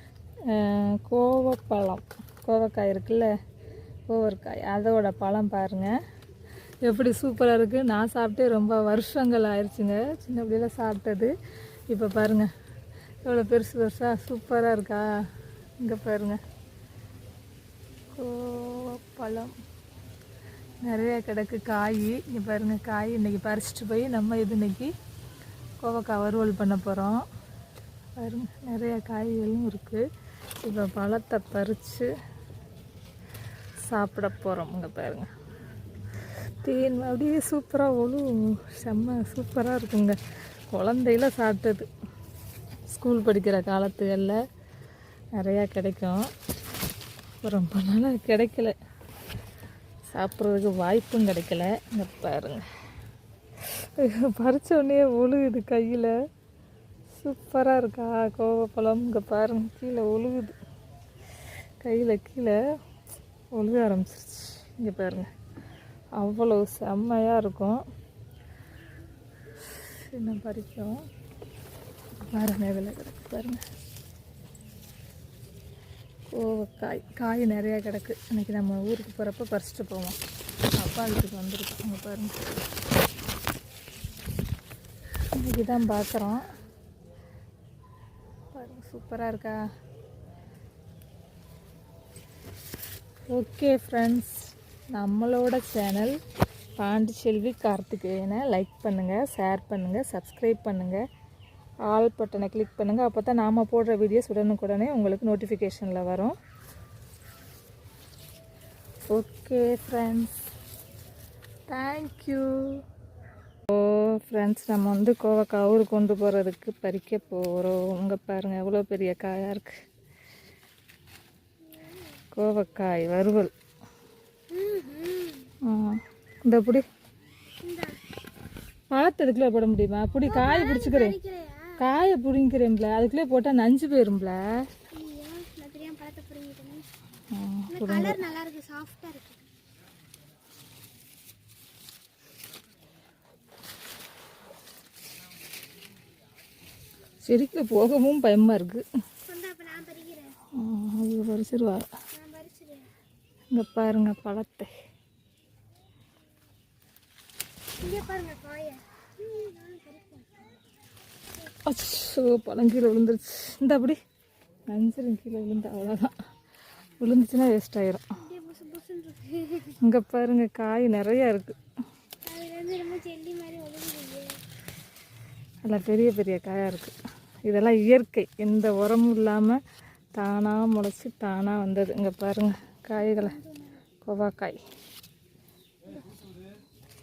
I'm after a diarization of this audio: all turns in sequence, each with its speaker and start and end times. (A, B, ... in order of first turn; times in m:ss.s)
0:00.5-0:03.3 A
0:04.1-0:05.9 A
0:06.8-0:11.3 A
0:11.9-0:12.5 A
0:13.2-0:15.1 A
0:15.8-0:16.4 A
0:18.2-0:19.5 A
0:20.8-0:24.9 A
0:25.8-0:27.2 A
0:28.2-0:30.0 A
0:30.6-0:32.1 A
0:33.8-0:35.3 A
0:36.6-0:40.2 A
0:40.7-0:41.9 A
0:42.9-0:44.4 A
0:45.4-0:46.3 A
0:47.4-0:48.8 A
0:50.1-0:52.7 A
0:53.8-0:56.1 A
0:57.2-1:00.6 A
1:01.8-1:02.6 A
1:03.5-1:05.3 A
1:06.2-1:07.8 A
1:10.1-1:11.0 A
1:12.2-1:13.6 A
1:16.3-1:20.2 A
1:20.8-1:22.4 A
1:25.4-1:26.4 A
1:28.5-1:29.6 A
1:33.3-1:34.4 A
1:35.0-1:36.2 A
1:36.8-1:41.0 A
1:41.9-1:46.4 A
1:49.1-1:50.4 A
1:51.7-1:52.8 A
1:53.7-1:59.7 A
2:02.4-2:03.5 A
2:04.5-2:05.5 B
2:05.6-2:06.9 A
2:07.6-2:08.0 B
2:08.9-2:11.2 A
2:10.2-2:11.8 B
2:11.8-2:14.4 A
2:14.9-2:16.9 B
2:17.3-2:18.2 A
2:17.7-2:19.4 B
2:27.2-2:28.8 A
2:29.2-2:30.4 B
2:30.6-2:31.9 A
2:32.1-2:32.9 B
2:33.5-2:34.7 A
2:37.8-2:40.3 B
2:41.6-2:44.0 A
2:44.7-2:46.2 A
2:47.0-2:48.0 A
2:48.2-2:49.8 B
2:49.8-2:51.6 A
2:52.2-2:54.4 B
2:55.6-2:59.6 A
3:00.2-3:03.4 A
3:02.9-3:03.8 B
3:04.0-3:04.6 A